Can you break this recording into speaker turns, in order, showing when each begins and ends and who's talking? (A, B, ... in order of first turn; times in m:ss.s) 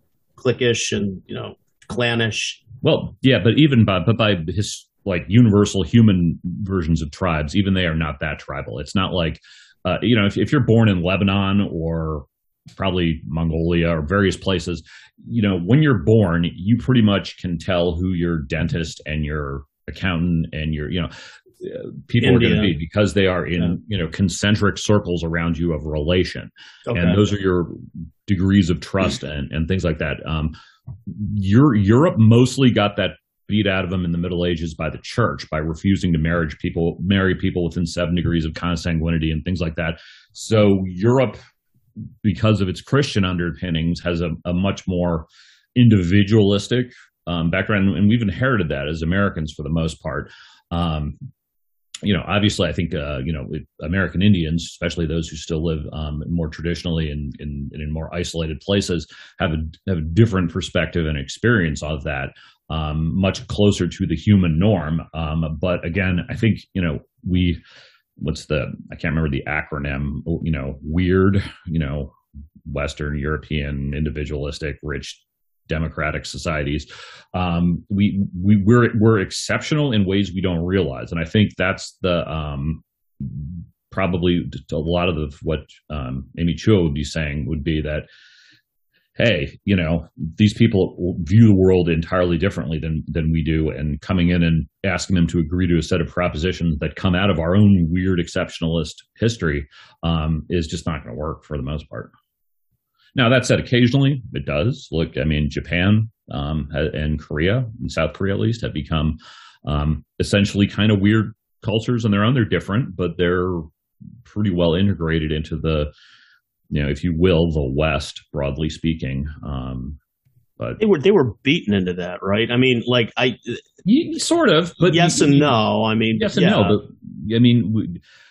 0:00.4-0:02.6 A
0:02.8-0:30.5 B
0:22.2-0:22.7 A
0:26.9-0:27.3 A
0:31.1-0:41.4 B
0:42.2-0:51.2 B
0:52.0-1:07.6 B
1:08.2-1:12.2 B
1:12.7-1:28.1 B
1:29.2-1:42.1 B
1:43.1-1:53.7 B
1:54.2-1:55.9 B
1:56.7-2:00.0 B
2:00.8-2:03.6 A
2:03.8-2:05.6 B
2:04.9-2:06.8 A
2:06.1-2:08.0 B